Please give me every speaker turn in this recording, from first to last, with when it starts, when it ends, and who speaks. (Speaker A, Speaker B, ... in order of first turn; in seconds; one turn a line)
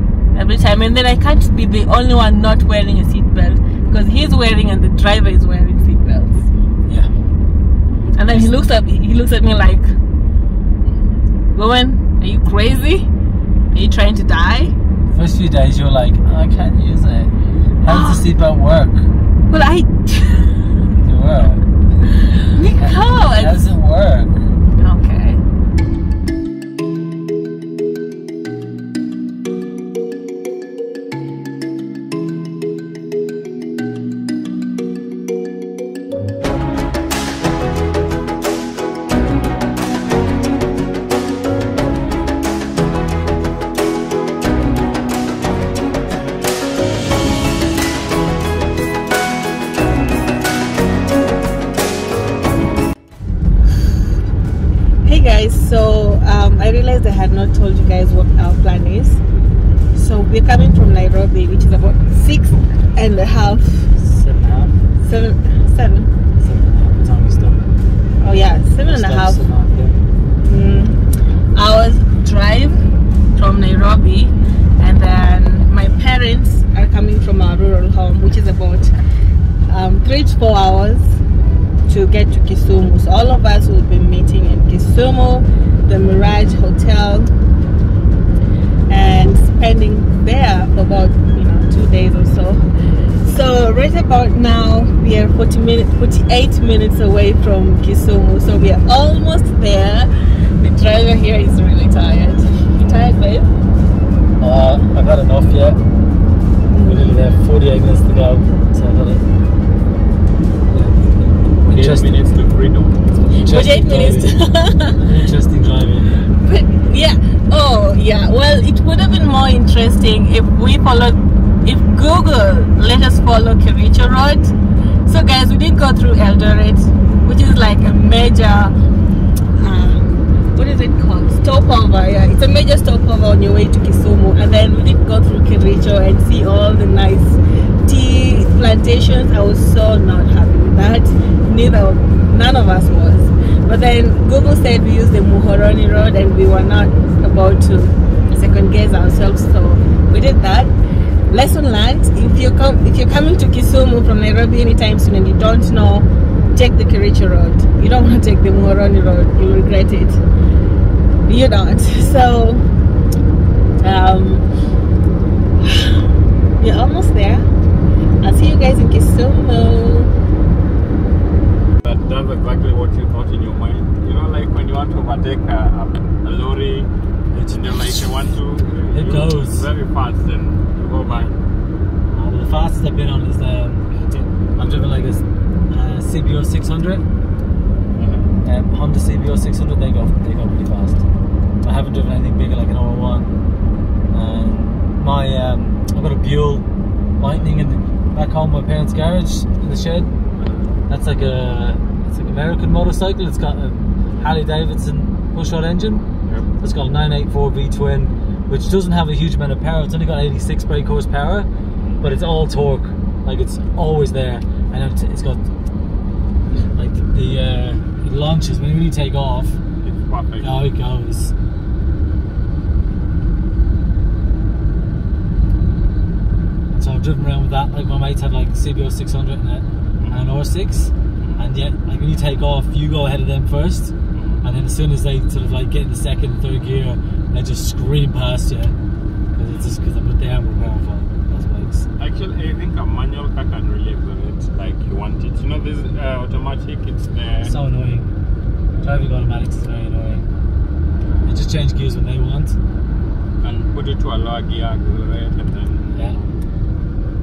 Speaker A: 0.3-6.5
Speaker A: 8.1-9.9
Speaker A: 11.5-13.1
Speaker A: 13.7-14.7
Speaker B: 15.1-19.1
Speaker A: 17.8-18.2
Speaker A: 19.5-20.8
Speaker B: 21.0-21.6
Speaker A: 22.1-23.7
Speaker B: 22.7-24.3
Speaker A: 24.8-25.4
Speaker A: 55.0-59.2
Speaker A: 59.9-63.9
Speaker B: 64.0-64.8
Speaker A: 65.0-66.1
Speaker B: 66.3-67.7
Speaker A: 68.2-69.4
Speaker B: 68.8-70.0
Speaker A: 70.4-71.0
Speaker A: 71.5-78.9
Speaker A: 79.7-81.2
Speaker A: 81.9-87.3
Speaker A: 88.9-92.6
Speaker A: 93.2-103.5
Speaker B: 104.4-105.8
Speaker A: 106.7-107.0
Speaker B: 106.8-109.2
Speaker B: 110.7-112.2
Speaker C: 111.6-113.0
Speaker B: 113.3-114.4
Speaker A: 113.3-115.0
Speaker B: 114.9-116.3
Speaker A: 116.4-124.5
Speaker A: 125.0-128.7
Speaker A: 129.6-150.7
Speaker A: 151.3-160.2
Speaker A: 161.2-162.7
Speaker A: 163.8-164.4
Speaker A: 166.6-167.5
Speaker A: 168.2-170.1
Speaker C: 171.8-176.9
Speaker B: 177.3-178.0
Speaker C: 177.5-181.3
Speaker B: 178.9-179.7
Speaker B: 182.1-183.9
Speaker C: 184.0-184.3
Speaker B: 184.6-187.0
Speaker C: 187.9-188.3
Speaker B: 188.4-191.0
Speaker B: 191.6-193.3
Speaker B: 194.1-196.7
Speaker B: 197.2-206.0
Speaker B: 206.6-211.5
Speaker B: 212.0-215.4
Speaker B: 216.6-219.6
Speaker C: 219.8-220.5
Speaker B: 220.4-221.3
Speaker B: 226.7-238.7
Speaker C: 230.0-230.3
Speaker C: 231.2-231.4
Speaker C: 234.1-234.4
Speaker B: 239.3-241.9
Speaker C: 242.0-247.5
Speaker B: 247.4-248.1
Speaker B: 248.8-250.3
Speaker B: 251.2-252.6
Speaker C: 253.4-256.3